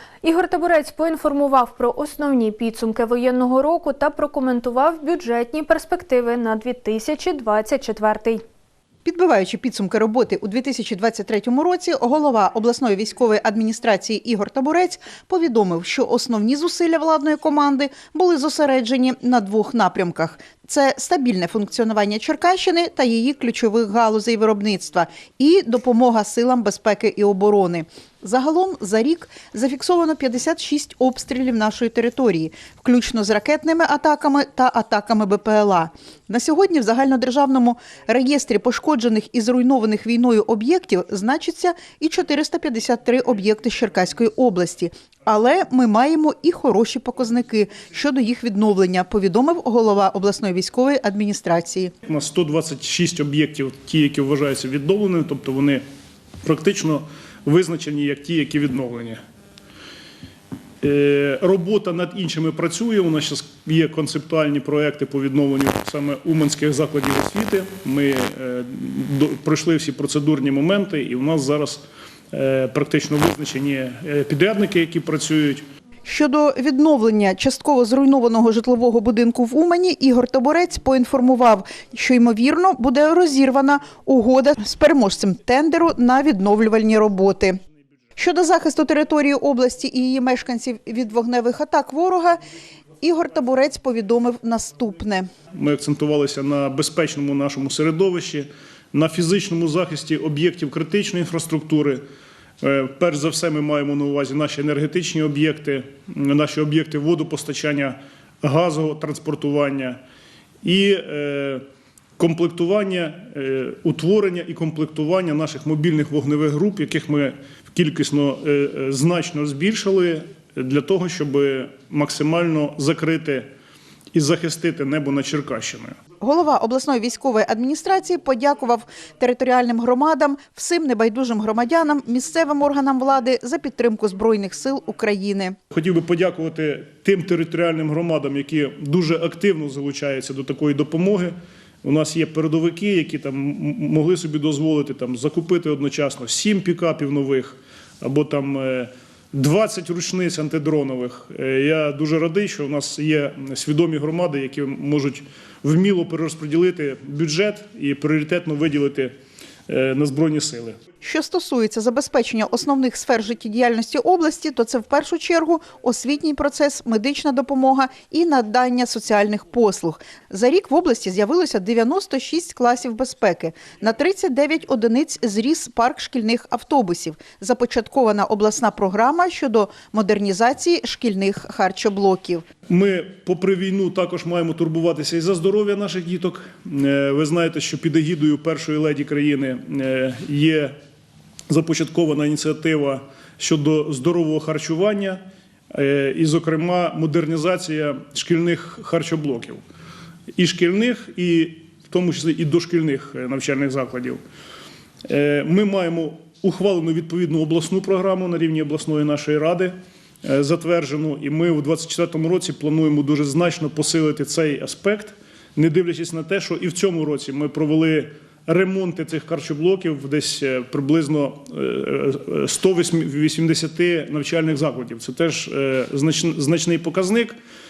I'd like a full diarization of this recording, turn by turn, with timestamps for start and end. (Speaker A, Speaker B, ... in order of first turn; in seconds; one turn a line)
Speaker A: 0.2-8.4
Speaker B: 9.1-51.9
Speaker C: 52.1-55.8
Speaker C: 56.4-59.2
Speaker C: 60.8-75.6
Speaker B: 76.0-87.6
Speaker B: 88.2-92.4
Speaker B: 93.0-95.3
Speaker C: 95.5-102.0
Speaker C: 102.6-110.0
Speaker C: 110.6-111.6
Speaker C: 112.2-123.5
Speaker C: 124.1-126.0
Speaker B: 126.2-135.6
Speaker C: 135.7-159.1
Speaker C: 159.7-160.8
Speaker B: 161.0-182.4
Speaker C: 182.7-190.8
Speaker C: 191.5-199.6
Speaker C: 200.4-204.2
Speaker C: 205.1-227.3